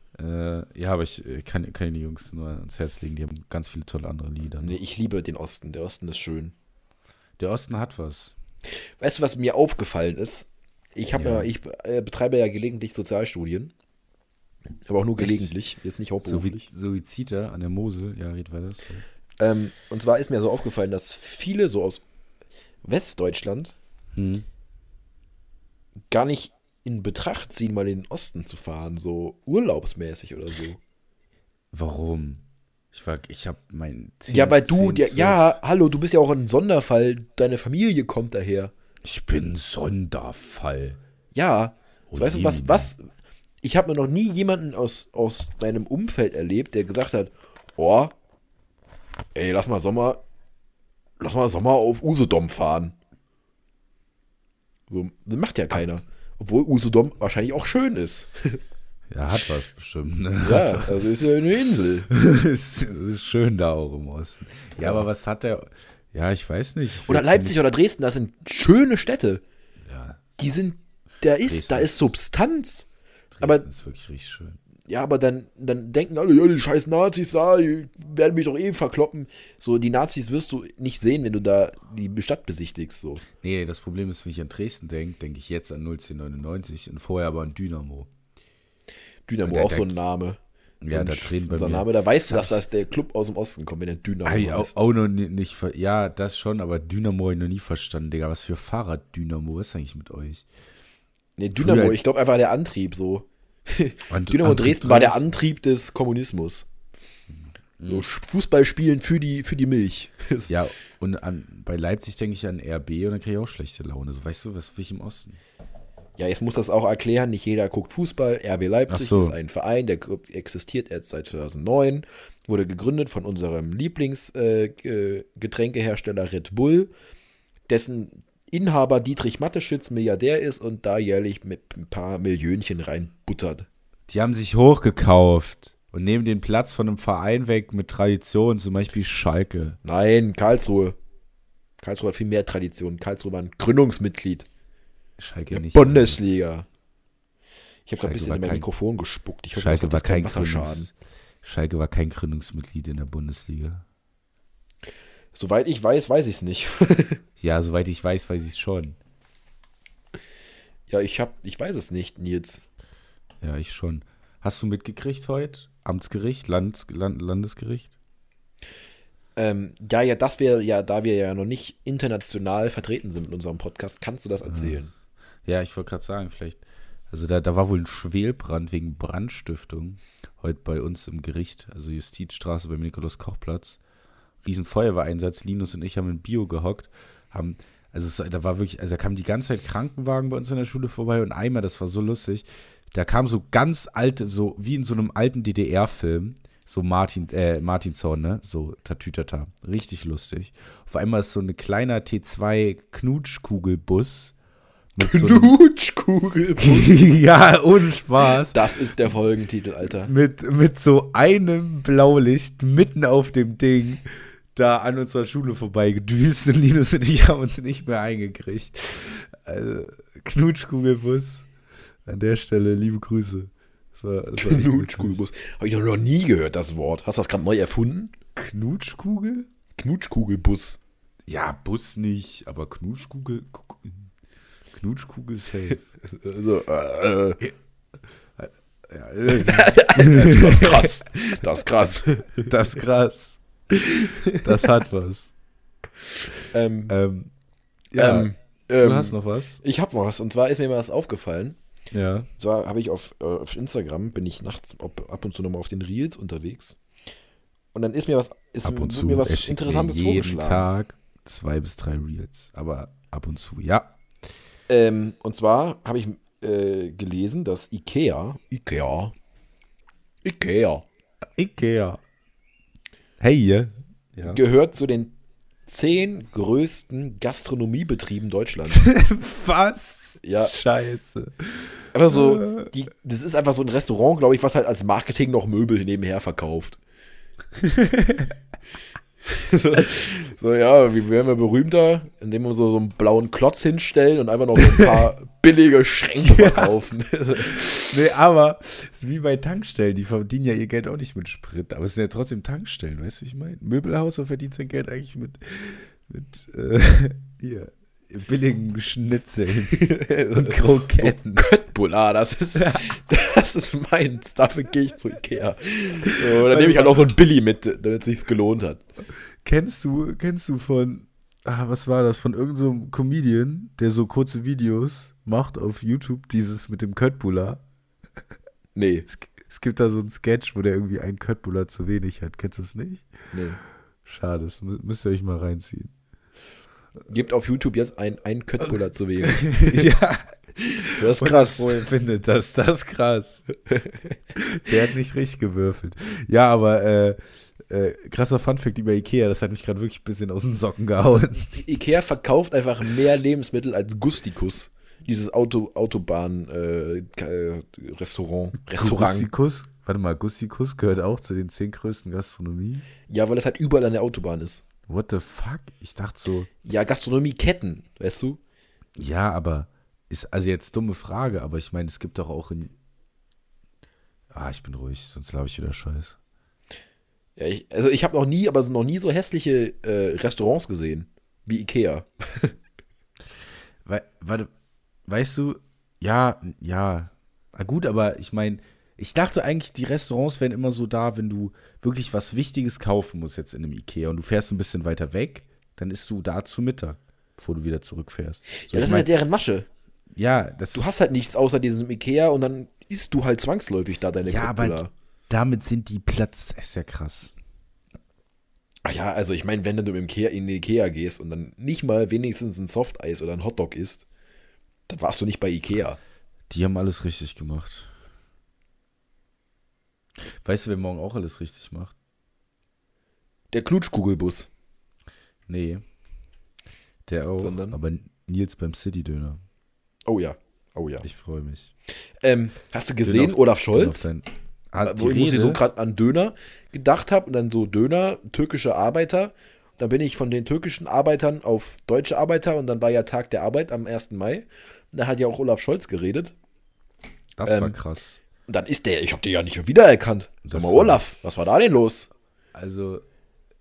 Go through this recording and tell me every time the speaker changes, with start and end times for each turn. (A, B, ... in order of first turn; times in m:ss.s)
0:00.2-0:04.8 A
0:04.6-0:06.6 B
0:07.4-0:08.4 A
0:09.0-0:13.7 B
0:11.2-0:11.5 A
0:14.9-0:16.7 B
0:15.2-0:15.5 A
0:16.2-0:19.0 A
0:19.4-0:22.0 B
0:22.8-0:23.8 B
0:24.2-0:24.5 A
0:26.1-0:30.8 B
0:31.7-0:35.6 A
0:34.3-0:38.7 B
0:39.0-0:41.0 A
0:41.3-0:43.1 B
0:42.1-0:42.9 A
0:43.6-0:48.1 B
0:49.4-0:50.2 B
0:51.2-0:53.0 B
0:54.9-0:58.6 B
0:59.1-1:07.6 A
1:00.4-1:02.1 B
1:04.8-1:05.1 B
1:07.0-1:09.4 B
1:09.8-1:10.2 A
1:10.4-1:12.9 B
1:11.5-1:12.1 A
1:13.3-1:14.6 A
1:14.9-1:23.2 B
1:23.3-1:28.1 A
1:29.3-1:30.4 B
1:29.5-1:30.0 A
1:30.8-1:32.6 A
1:30.9-1:34.7 B
1:34.2-1:40.5 A
1:41.4-1:46.7 B
1:41.6-1:42.0 A
1:44.1-1:45.2 A
1:47.4-1:48.1 A
1:47.9-1:50.5 B
1:50.5-1:55.4 A
1:56.2-2:06.9 B
1:58.9-1:59.4 A
2:07.7-2:13.7 B
2:14.1-2:19.8 A
2:19.8-2:21.0 B
2:21.8-2:24.5 B
2:25.2-2:26.4 A
2:25.5-2:26.7 B
2:27.9-2:30.9 B
2:28.0-2:28.7 A
2:29.6-2:30.9 A
2:31.4-2:33.8 A
2:35.3-2:37.2 B
2:37.4-2:39.0 A
2:40.9-2:42.6 B
2:43.4-2:47.9 A
2:49.4-2:54.9 B
2:54.5-2:54.8 A
2:55.5-3:03.8 A
3:04.4-3:24.4 A
3:25.0-3:25.6 A
3:25.0-3:27.1 B
3:26.6-3:28.6 A
3:28.3-3:30.1 B
3:30.0-3:34.0 A
3:34.6-3:41.5 A
3:42.1-3:45.2 A
3:44.4-3:48.1 B
3:48.4-3:49.5 A
3:49.8-3:50.8 B
3:51.3-3:54.1 A
3:54.7-3:55.9 A
3:56.0-3:57.4 B
3:58.4-4:00.9 A
3:59.3-4:02.5 B
4:02.4-4:03.4 A
4:03.8-4:04.7 B
4:04.4-4:05.3 A
4:06.5-4:07.0 B
4:06.9-4:07.3 A
4:07.9-4:09.6 A
4:08.0-4:11.6 B
4:11.9-4:12.3 A
4:12.4-4:16.8 B
4:17.7-4:20.7 B
4:18.6-4:24.0 A
4:24.7-4:29.1 B
4:30.2-4:30.8 B
4:31.4-4:32.0 A
4:33.2-4:34.4 A
4:34.2-4:35.2 B
4:35.7-4:38.9 B
4:38.7-4:42.7 A
4:40.2-4:40.6 B
4:41.9-4:46.8 B
4:47.6-4:48.3 A
4:49.3-4:57.9 B
4:54.6-4:55.0 A
4:56.2-4:56.7 A
4:57.5-5:11.5 A
5:09.7-5:18.8 B
5:12.6-5:12.9 A
5:16.2-5:17.2 A
5:19.4-5:27.6 A
5:28.8-5:29.1 B
5:29.1-5:33.1 A
5:33.3-5:33.6 B
5:34.0-5:35.9 A
5:37.1-5:39.9 B
5:39.2-5:40.2 A
5:40.6-5:41.8 B
5:40.8-5:43.4 A
5:43.7-5:44.2 B
5:44.4-5:47.2 A
5:47.7-5:51.5 A
5:51.4-5:59.3 B
5:58.7-6:02.9 A
6:03.1-6:04.6 B
6:04.9-6:06.5 A
6:06.6-6:08.4 B
6:09.0-6:12.7 A
6:14.3-6:16.2 A
6:17.4-6:22.5 B
6:23.8-6:24.5 A
6:25.1-6:39.1 A
6:38.6-6:39.7 B
6:40.2-6:41.2 A
6:40.7-6:44.9 B
6:44.2-6:47.3 A
6:48.8-6:54.1 B
6:54.9-6:56.0 B
6:56.5-6:57.9 A
7:00.4-7:01.9 A
7:03.5-7:04.5 B
7:05.5-7:05.8 A
7:07.1-7:09.4 A
7:07.4-7:07.8 B
7:10.1-7:11.1 B
7:11.0-7:11.7 A
7:12.2-7:14.1 B
7:13.0-7:15.6 A
7:14.8-7:26.4 B
7:27.4-7:28.2 A
7:27.5-7:27.8 B
7:28.5-7:32.1 B
7:30.4-7:31.0 A
7:32.6-7:33.0 A